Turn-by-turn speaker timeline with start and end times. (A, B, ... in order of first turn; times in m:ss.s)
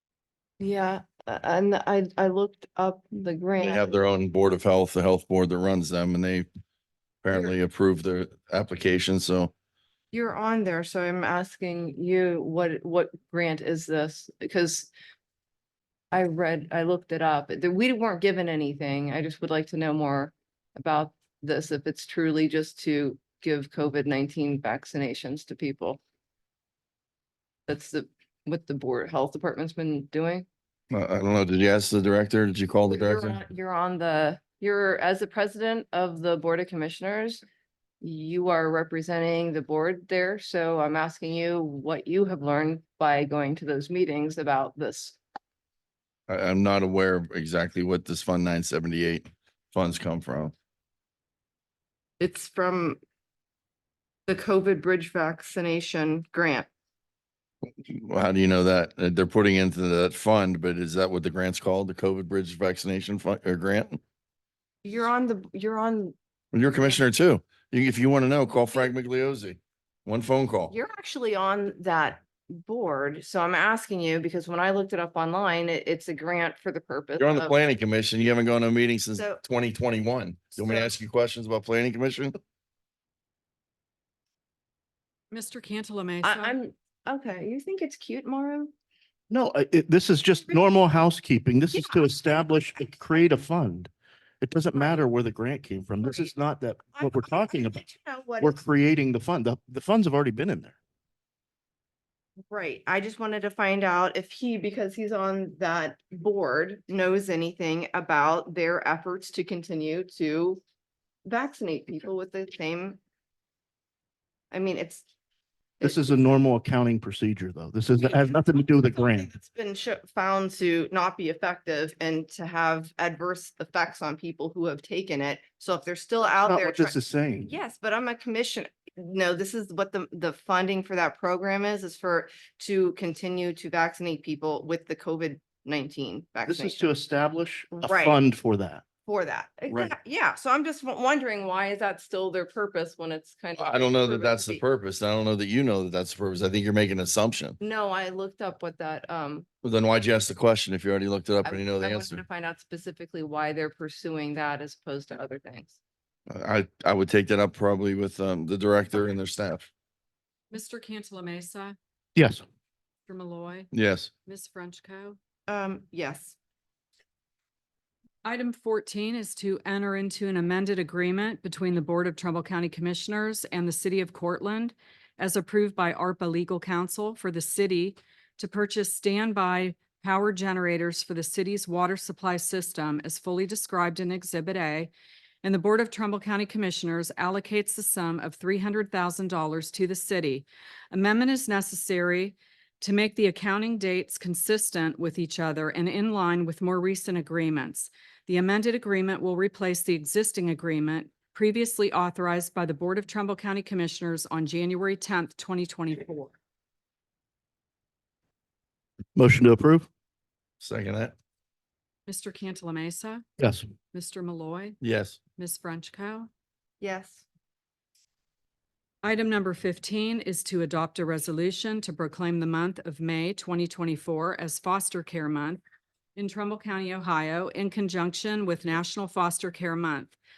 0:00.6-0:04.0 A
0:03.6-0:06.5 B
0:07.2-0:09.5 B
0:10.1-0:14.9 A
0:16.1-0:26.0 A
0:27.7-0:30.5 A
0:30.9-0:33.4 B
0:32.9-0:37.4 A
0:38.0-0:45.2 A
0:46.3-0:50.5 B
0:52.2-0:53.0 A
0:54.3-0:56.7 A
0:57.6-1:04.0 B
1:04.8-1:06.2 A
1:06.5-1:10.8 B
1:06.7-1:07.0 A
1:10.7-1:17.6 A
1:17.2-1:22.4 B
1:19.1-1:19.4 A
1:20.6-1:21.0 A
1:25.3-1:26.6 C
1:26.2-1:28.7 A
1:29.3-1:33.9 D
1:31.7-1:32.5 A
1:34.4-1:37.8 D
1:34.8-1:35.1 A
1:37.0-1:38.6 A
1:38.4-1:40.8 D
1:42.5-1:50.6 A
1:51.2-1:53.0 A
1:54.5-1:55.0 A
1:55.8-1:56.3 A
1:55.8-1:59.3 D
1:58.0-2:16.9 A
2:06.5-2:07.5 D
2:16.5-2:18.8 D
2:17.8-2:18.2 A
2:19.1-2:24.6 A
2:23.6-2:27.6 B
2:27.6-2:29.5 A
2:29.6-2:32.2 B
2:31.4-2:35.8 A
2:36.3-2:39.7 B
2:40.5-2:41.8 C
2:42.2-2:42.4 D
2:43.1-2:43.7 C
2:43.7-2:44.1 B
2:44.2-2:45.2 C
2:45.5-2:46.4 A
2:48.2-3:04.9 C
3:05.4-3:26.4 C
3:29.2-3:29.9 D
3:30.6-3:31.1 B
3:32.1-3:33.2 C
3:33.4-3:33.7 D
3:33.9-3:34.8 C
3:34.8-3:35.2 B
3:35.4-3:36.3 C
3:36.8-3:37.2 A
3:39.0-3:45.6 C
3:46.2-3:50.2 C